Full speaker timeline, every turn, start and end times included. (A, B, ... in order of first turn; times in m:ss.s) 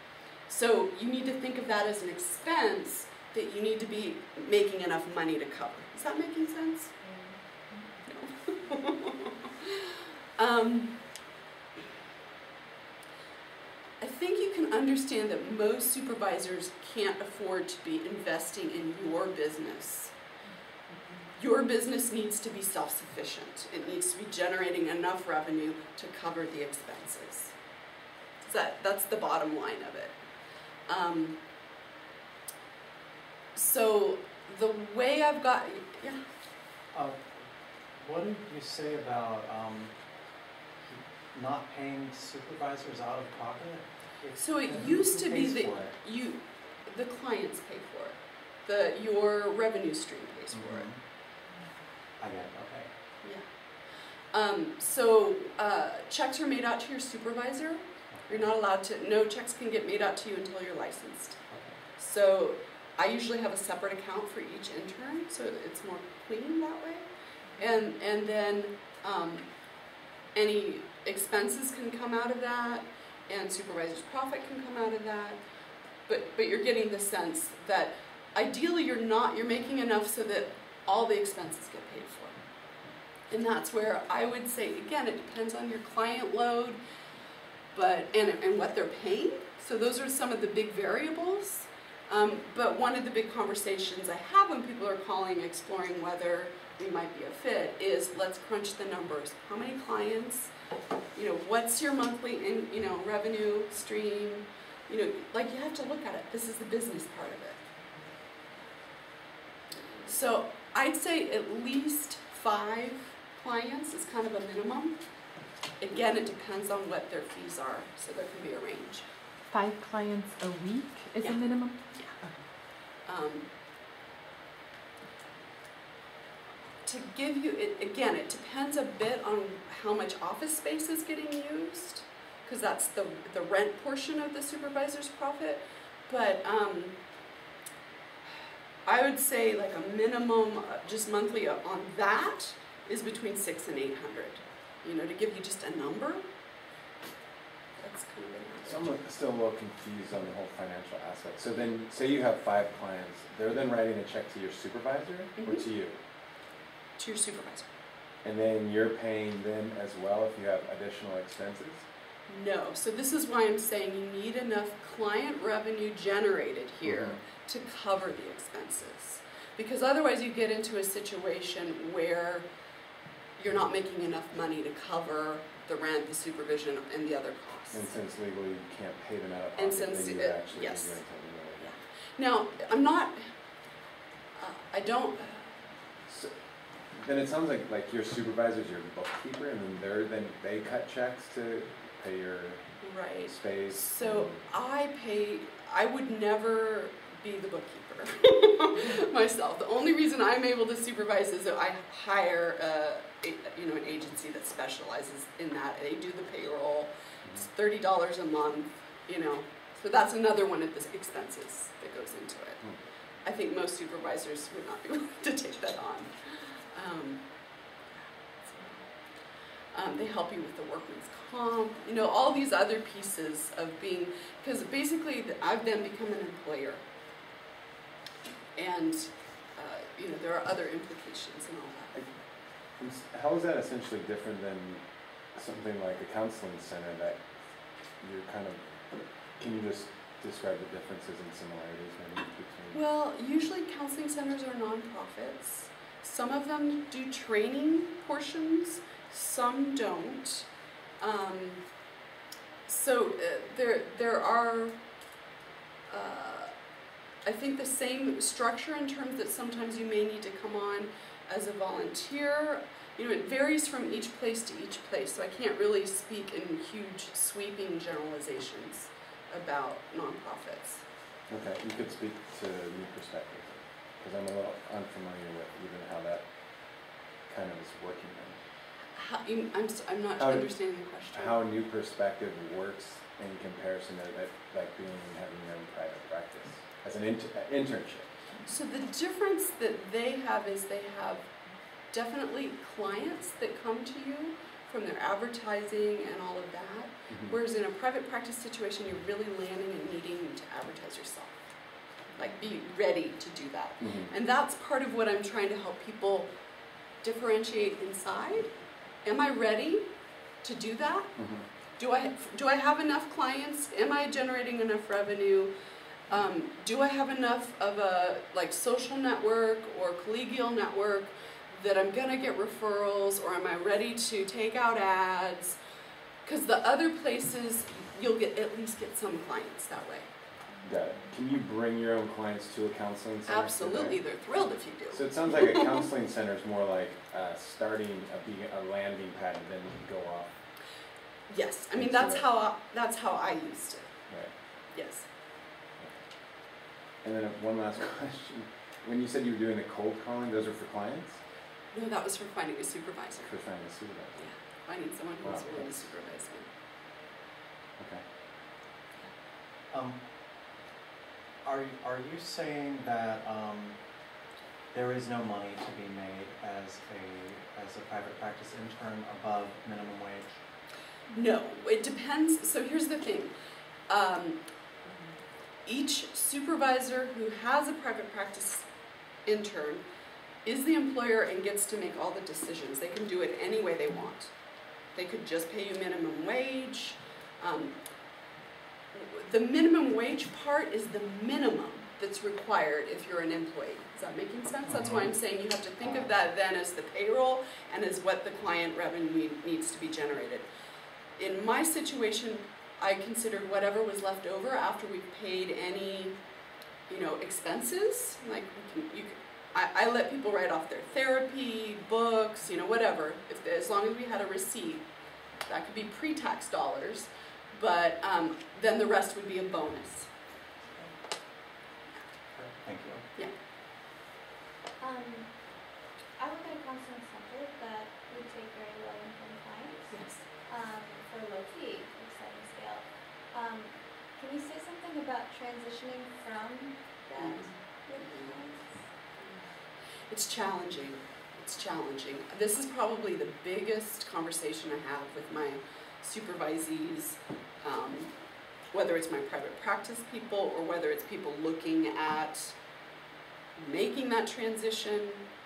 0:00.5-0:06.9 A
0:08.1-0:11.0 A
0:14.0-0:20.1 A
0:21.3-0:27.5 A
0:28.4-0:30.2 A
0:30.9-0:31.4 A
0:33.5-0:36.2 A
0:36.9-0:39.9 B
0:40.8-0:45.9 B
0:44.4-0:50.8 A
0:50.5-0:51.0 B
0:52.2-0:52.9 B
0:54.3-1:09.5 A
0:58.1-0:58.4 B
1:01.5-1:01.8 B
1:10.3-1:15.4 A
1:16.0-1:22.4 A
1:23.3-1:26.8 A
1:27.7-1:40.5 A
1:41.1-1:47.6 A
1:50.0-1:55.0 A
1:55.8-1:59.1 A
1:59.5-2:02.3 C
2:03.0-2:03.5 A
2:06.8-2:17.0 A
2:18.8-2:26.2 A
2:27.8-2:28.9 A
2:28.6-2:36.0 D
2:35.4-2:35.6 A
2:37.0-2:37.7 A
2:38.2-2:41.8 D
2:42.3-2:52.5 A
2:46.8-2:47.2 D
2:53.4-2:57.9 A
2:57.7-3:01.7 D
2:59.5-3:00.9 A
3:01.6-3:03.3 A
3:04.4-3:05.6 A
3:07.0-3:12.6 D
3:12.8-3:32.6 A
3:13.3-3:14.4 D
3:33.2-3:37.2 A
3:37.9-3:38.9 A
3:39.7-3:46.8 A
3:48.6-3:51.9 A
3:52.8-3:54.8 D
3:55.3-3:57.3 D
3:58.0-4:02.8 D
4:02.7-4:10.5 A
4:11.0-4:11.6 A
4:12.6-4:14.8 A
4:15.9-4:16.5 A
4:17.2-4:30.8 A
4:31.3-4:36.3 D
4:37.3-4:38.4 D
4:38.9-4:41.4 A
4:40.2-4:40.5 D
4:41.1-4:48.1 D
4:48.4-4:51.3 A
4:51.9-5:01.4 A
4:57.1-4:57.4 D
5:02.2-5:06.3 A
5:03.8-5:04.1 D
5:07.0-5:08.5 A
5:09.0-5:09.8 A
5:10.4-5:11.1 A
5:11.2-5:11.4 D
5:11.8-5:15.5 A
5:16.1-5:25.6 A
5:26.2-5:30.1 A
5:30.6-5:34.0 D
5:33.2-5:35.8 A
5:34.9-5:40.4 D
5:41.3-5:43.9 A
5:41.8-5:42.2 D
5:44.7-5:45.1 A
5:47.0-5:51.2 D
5:51.7-5:53.3 A
5:53.2-5:54.2 D
5:54.2-5:56.5 A
5:55.2-5:55.7 D
5:57.8-5:58.0 D
5:59.7-6:00.0 B
6:01.4-6:03.8 B
6:04.7-6:10.4 B
6:11.1-6:13.3 A
6:13.9-6:14.4 A
6:15.6-6:18.7 A
6:19.2-6:19.8 A
6:20.4-6:24.3 A
6:24.9-6:27.8 A
6:28.9-6:40.5 A
6:34.7-6:35.0 D
6:41.2-6:46.2 A
6:46.9-6:54.8 A
6:55.4-7:00.1 A
7:02.3-7:03.0 B
7:04.8-7:18.9 E
7:09.9-7:10.2 A
7:17.2-7:18.3 A
7:20.1-7:28.1 A
7:28.7-7:32.6 A
7:33.6-7:35.3 A